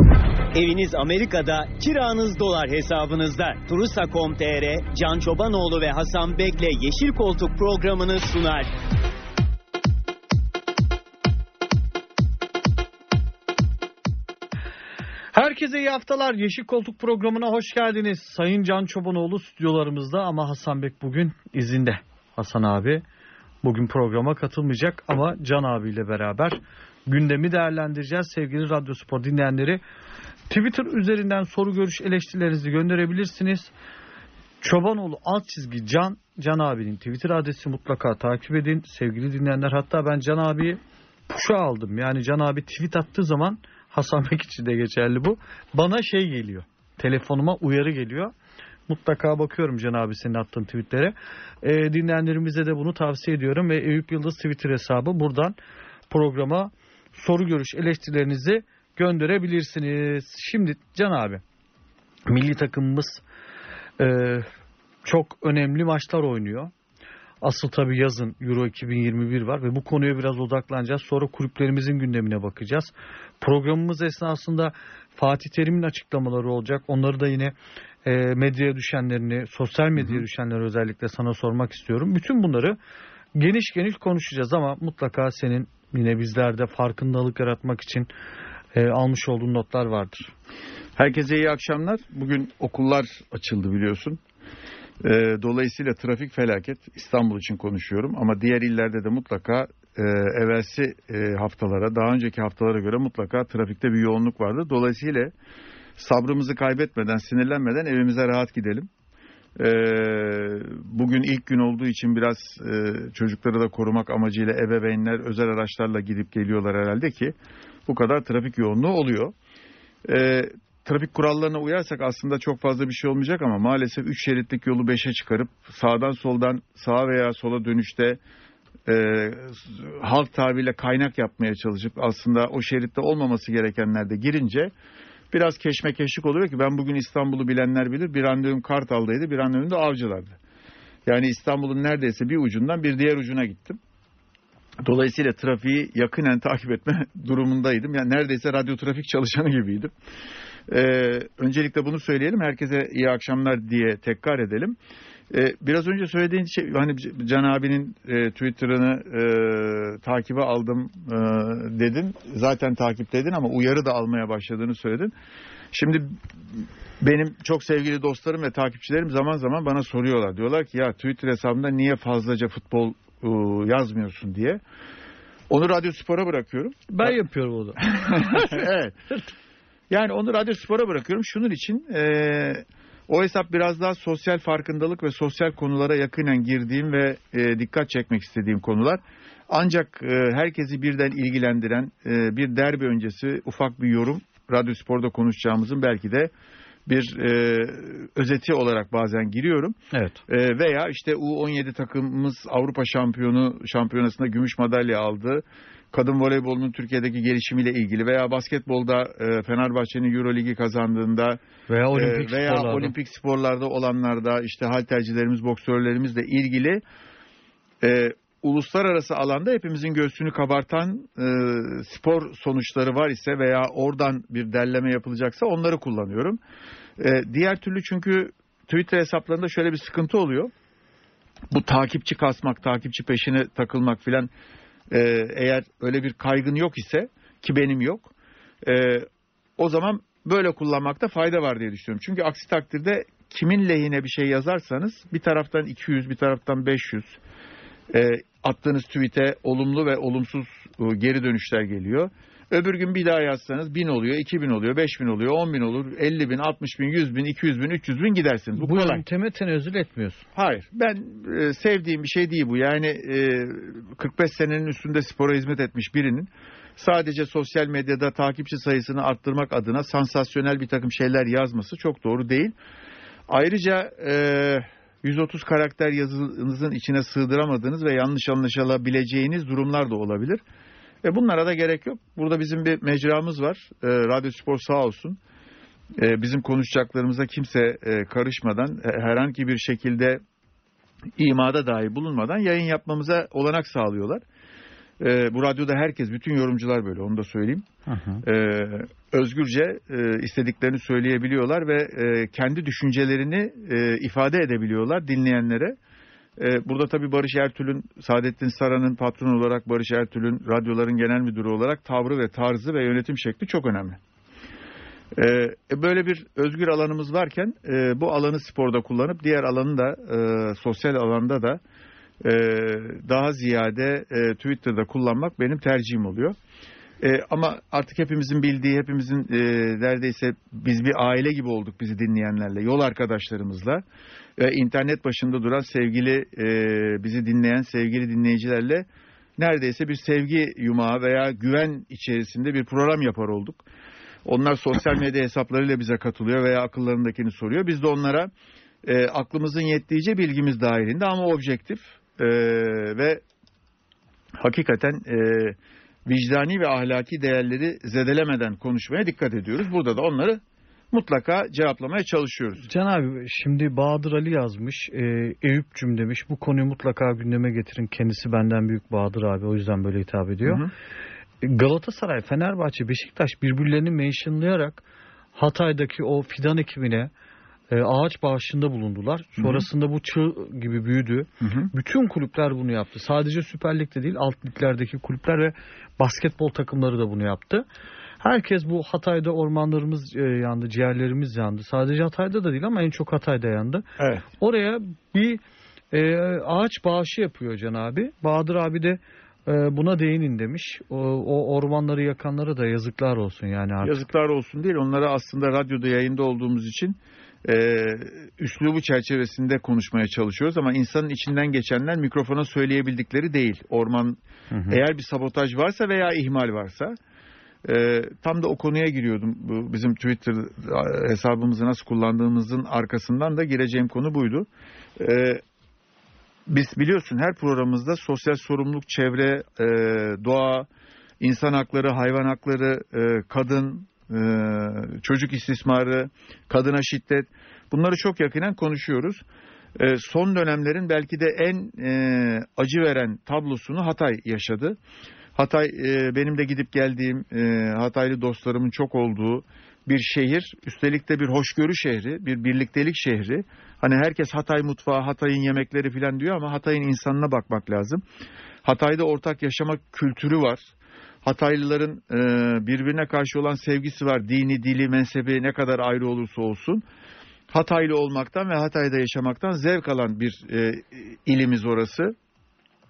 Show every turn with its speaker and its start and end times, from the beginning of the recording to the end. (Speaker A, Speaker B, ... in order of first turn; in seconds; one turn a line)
Speaker A: 0.5-8.7
Speaker B: 15.3-23.0
Speaker B: 23.6-29.8
Speaker B: 30.5-33.7
Speaker B: 34.6-48.3
Speaker B: 48.9-55.5
Speaker B: 56.1-61.4
Speaker B: 62.3-63.2
Speaker B: 64.0-64.5
Speaker B: 65.0-66.7
Speaker B: 67.4-82.8
Speaker B: 83.3-88.1
Speaker B: 88.7-90.3
Speaker C: 91.0-94.2
Speaker C: 95.0-105.3
Speaker C: 106.0-108.9
Speaker C: 109.6-117.3
Speaker C: 117.8-119.3
Speaker C: 120.0-128.2
Speaker C: 128.8-134.7
Speaker C: 135.3-140.4
Speaker C: 141.1-143.8
Speaker C: 144.8-149.9
Speaker C: 150.7-154.8
Speaker C: 155.3-165.1
Speaker C: 165.7-174.6
Speaker C: 175.5-177.1
Speaker B: 176.9-178.7
Speaker C: 177.8-179.0
Speaker C: 179.9-196.3
Speaker C: 196.8-199.8
Speaker B: 199.9-200.2
Speaker C: 200.3-211.4
Speaker B: 211.7-212.9
Speaker C: 211.9-216.8
Speaker C: 217.8-226.4
Speaker C: 227.0-230.5
Speaker C: 231.5-234.3
Speaker C: 234.9-247.2
Speaker C: 247.9-259.0
Speaker B: 258.5-260.2
Speaker C: 260.3-272.5
Speaker C: 273.3-280.4
Speaker C: 281.0-285.2
Speaker C: 285.9-290.2
Speaker C: 291.2-294.2
Speaker C: 295.0-297.6
Speaker B: 297.9-298.2
Speaker C: 298.2-305.8
Speaker C: 306.4-314.0
Speaker C: 315.1-321.6
Speaker C: 322.2-326.4
Speaker C: 327.0-333.8
Speaker C: 334.4-338.9
Speaker C: 339.4-343.6
Speaker C: 344.2-348.3
Speaker C: 348.8-353.2
Speaker C: 354.4-362.7
Speaker B: 362.6-370.7
Speaker C: 370.4-370.7
Speaker B: 371.4-374.8
Speaker B: 375.4-377.1
Speaker B: 377.7-387.6
Speaker C: 379.4-379.7
Speaker C: 381.4-381.7
Speaker B: 388.2-395.4
Speaker C: 394.0-394.2
Speaker B: 395.9-404.0
Speaker C: 403.8-414.2
Speaker B: 414.5-414.8
Speaker C: 414.7-416.9
Speaker C: 417.6-424.5
Speaker C: 425.0-425.4
Speaker C: 426.5-430.7
Speaker C: 431.2-439.2
Speaker C: 439.8-444.8
Speaker C: 445.3-458.0
Speaker C: 458.6-460.6
Speaker C: 461.2-466.8
Speaker C: 467.5-472.1